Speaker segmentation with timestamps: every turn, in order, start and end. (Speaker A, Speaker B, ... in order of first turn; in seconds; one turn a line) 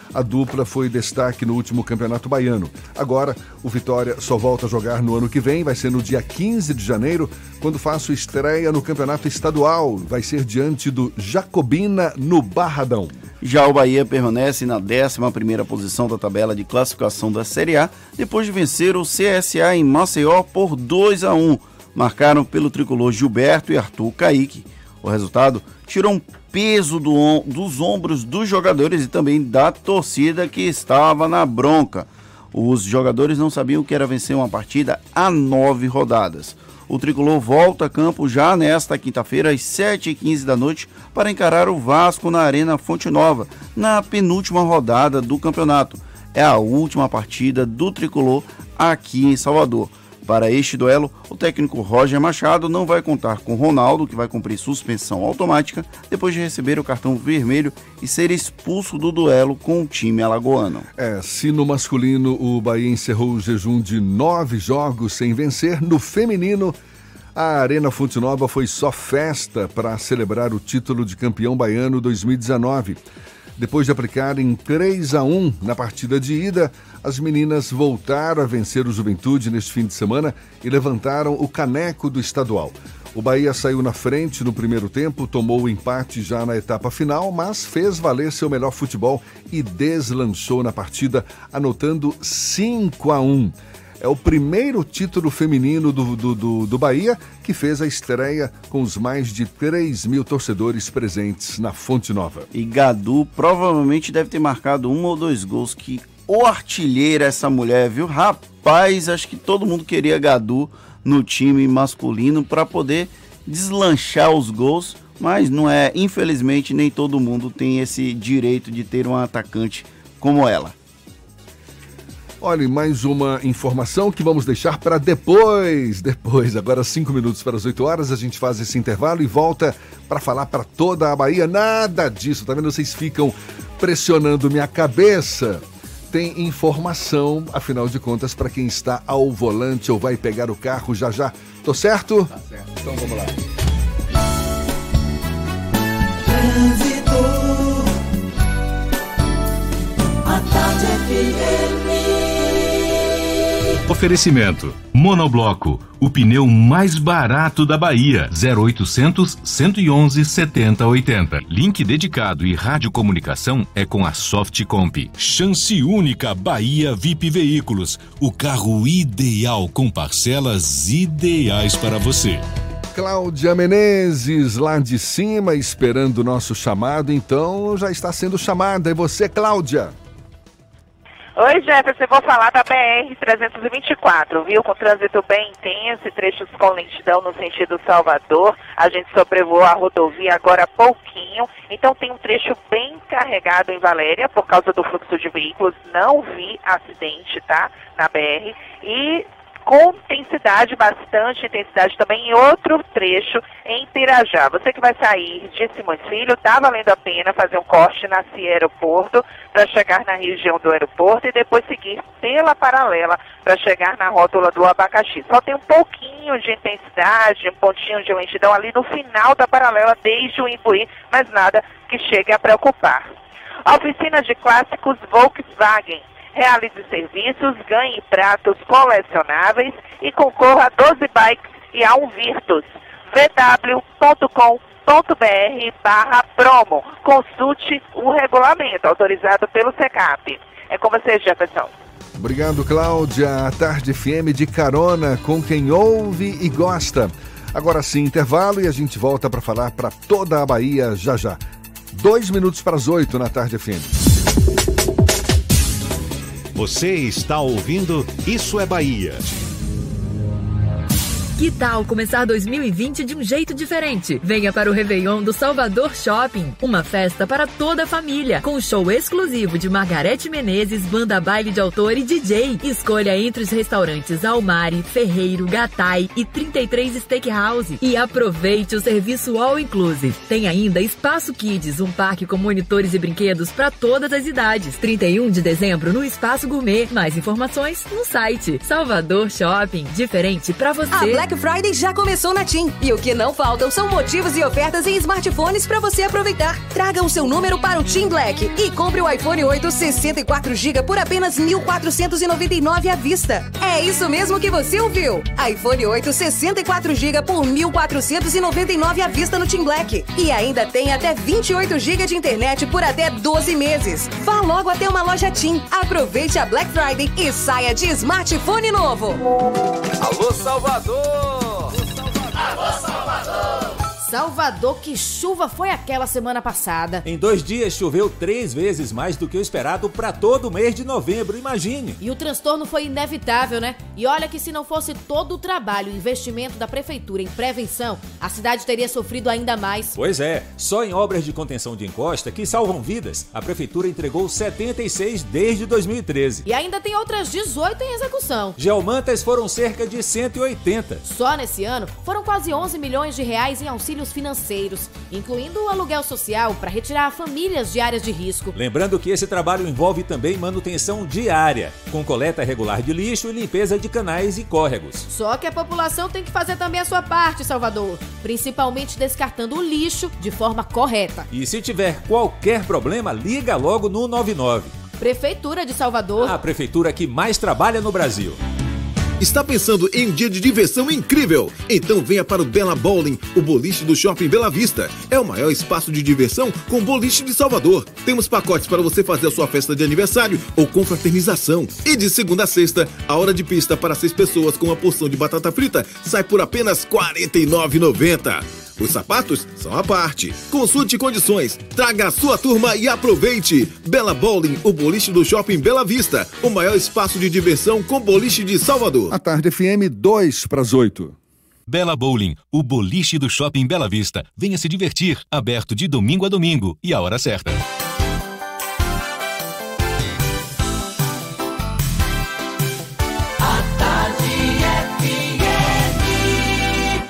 Speaker A: 0.1-13.2
Speaker B: 13.4-60.9
Speaker A: 61.0-66.8
Speaker A: 67.3-73.0
Speaker A: 73.6-102.5
Speaker B: 102.5-120.7
Speaker A: 122.4-142.3
Speaker C: 142.9-143.3
Speaker C: 146.2-147.9
Speaker C: 150.2-152.7
Speaker D: 153.9-172.4
Speaker A: 172.9-179.9
Speaker E: 181.4-223.1
Speaker E: 223.7-241.7
Speaker A: 242.2-251.4
Speaker A: 251.9-253.9
Speaker F: 256.6-259.4
Speaker G: 261.4-291.3
Speaker H: 290.9-319.2
Speaker I: 324.0-327.0
Speaker J: 327.1-332.0
Speaker I: 332.0-340.0
Speaker J: 339.9-346.5
Speaker I: 346.5-348.6
Speaker J: 348.6-351.0
Speaker I: 351.1-358.5
Speaker J: 358.5-365.1
Speaker I: 365.1-371.3
Speaker J: 371.3-374.7
Speaker I: 375.0-376.4
Speaker J: 376.2-378.4
Speaker K: 379.2-409.1
Speaker A: 409.1-411.1
Speaker D: 411.7-417.6
Speaker C: 423.6-425.3